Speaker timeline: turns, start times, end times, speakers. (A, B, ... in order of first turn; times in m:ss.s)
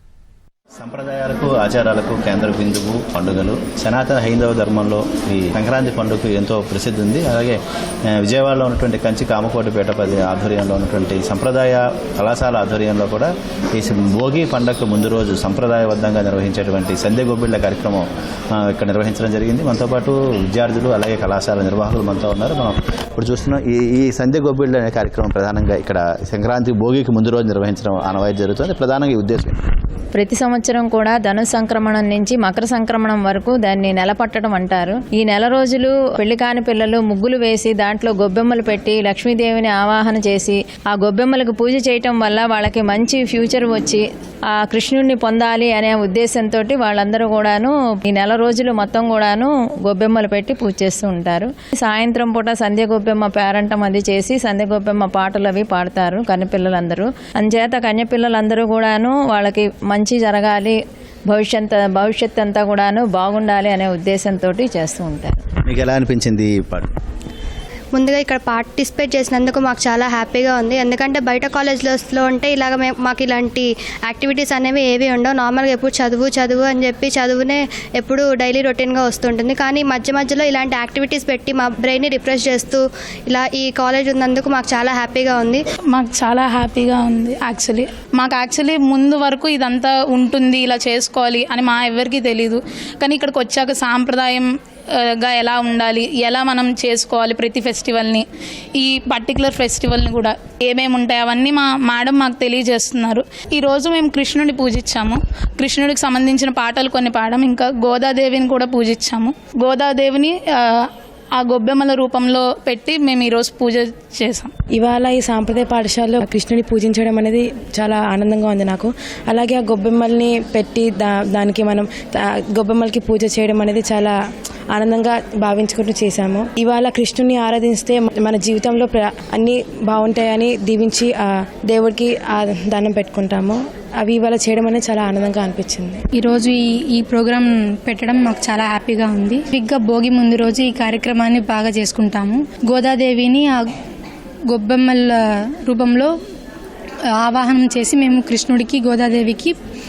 0:00.8-0:29.6 A
0:30.1-0:44.0 B
0:44.6-1:00.8 B
1:01.3-1:05.4 B
1:05.6-1:06.9 A
1:07.9-1:25.6 C
1:25.9-1:54.5 D
1:54.8-2:04.2 E
2:04.7-2:16.0 E
2:16.2-2:23.7 F
2:24.5-2:26.1 F
2:27.2-2:29.6 F